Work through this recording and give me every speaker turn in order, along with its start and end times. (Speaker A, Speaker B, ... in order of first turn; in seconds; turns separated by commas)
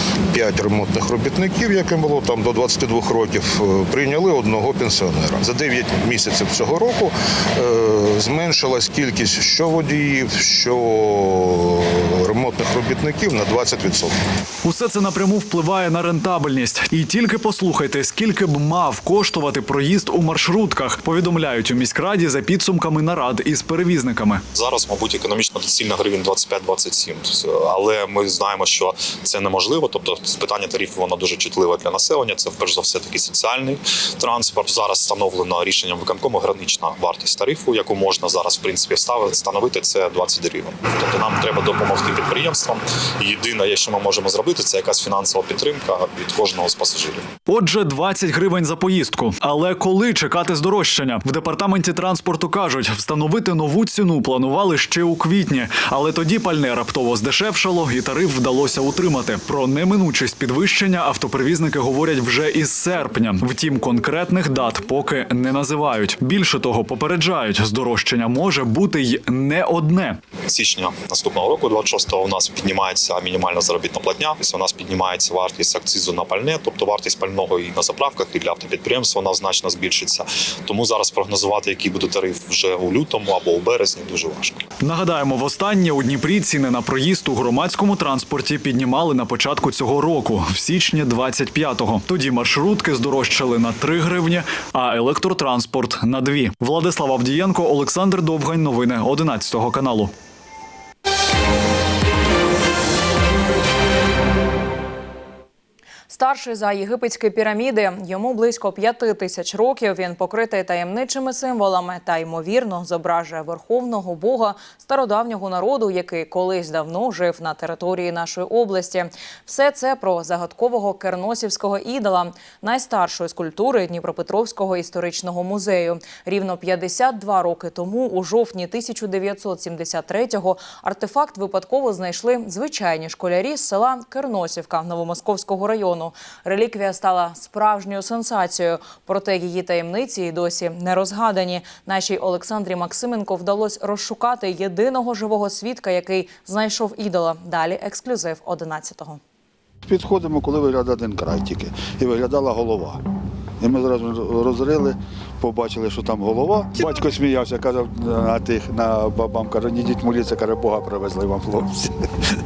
Speaker A: 0.3-14.2, Speaker B: 14.6-24.4, Speaker C: 24.5-47.3, Speaker B: 47.5-70.2, Speaker C: 70.5-84.6, Speaker B: 84.8-100.1, Speaker D: 106.1-149.2, Speaker E: 149.9-153.0, Speaker E: 153.6-161.9